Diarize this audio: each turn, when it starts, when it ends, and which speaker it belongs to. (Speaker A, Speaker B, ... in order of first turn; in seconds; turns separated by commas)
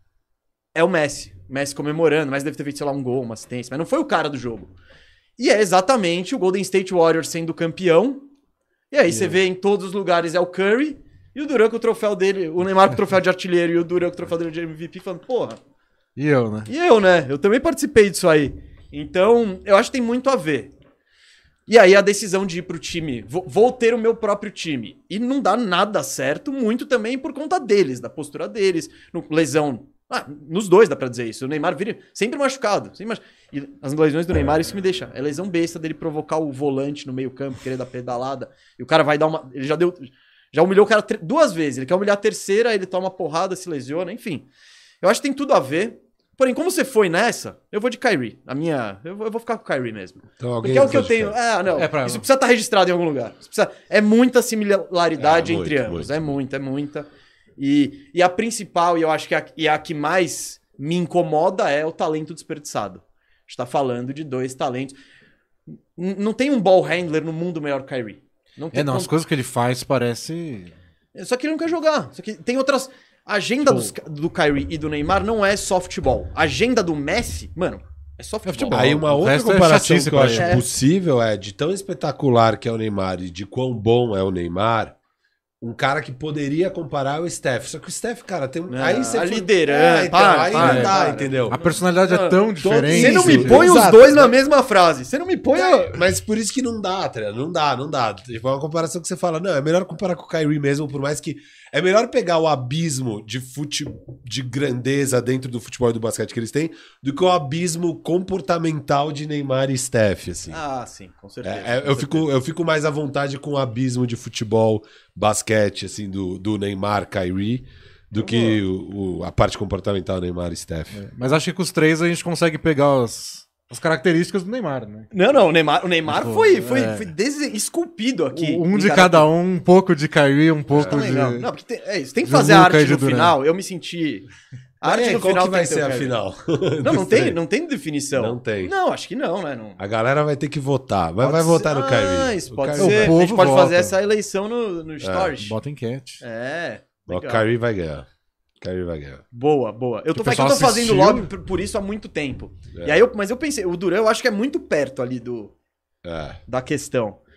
Speaker A: 0.8-4.7, Speaker A: 5.4-8.3, Speaker A: 8.9-15.6, Speaker B: 9.1-9.4, Speaker B: 16.2-16.7, Speaker A: 16.7-20.7, Speaker A: 21.7-44.5, Speaker A: 45.0-65.0, Speaker C: 50.4-51.4, Speaker B: 51.7-52.3, Speaker C: 55.2-56.1, Speaker A: 66.0-69.1, Speaker B: 68.7-70.7, Speaker A: 71.2-79.0, Speaker B: 73.7-73.9, Speaker B: 78.5-80.6, Speaker C: 78.7-85.0, Speaker A: 80.3-80.7, Speaker C: 85.6-91.6, Speaker A: 88.7-96.0, Speaker B: 90.5-91.0, Speaker B: 91.5-93.8, Speaker C: 92.6-94.3, Speaker C: 95.5-110.6, Speaker A: 110.5-112.3, Speaker C: 111.4-121.0, Speaker A: 118.2-118.6, Speaker B: 121.0-125.1, Speaker A: 125.1-129.3, Speaker B: 126.1-127.1, Speaker B: 128.3-131.5, Speaker C: 130.7-131.2, Speaker A: 130.9-134.3, Speaker B: 132.2-133.4, Speaker A: 134.8-136.2, Speaker C: 134.8-137.4, Speaker A: 136.8-139.8, Speaker C: 138.2-138.7, Speaker C: 139.8-143.2, Speaker A: 141.2-145.6, Speaker B: 142.8-143.9, Speaker C: 145.0-145.3, Speaker B: 145.4-146.2, Speaker A: 146.2-147.4, Speaker C: 147.1-148.1, Speaker C: 148.6-149.2, Speaker A: 149.3-155.5, Speaker B: 150.1-151.3, Speaker C: 152.7-153.0, Speaker C: 156.0-156.4, Speaker A: 156.5-157.2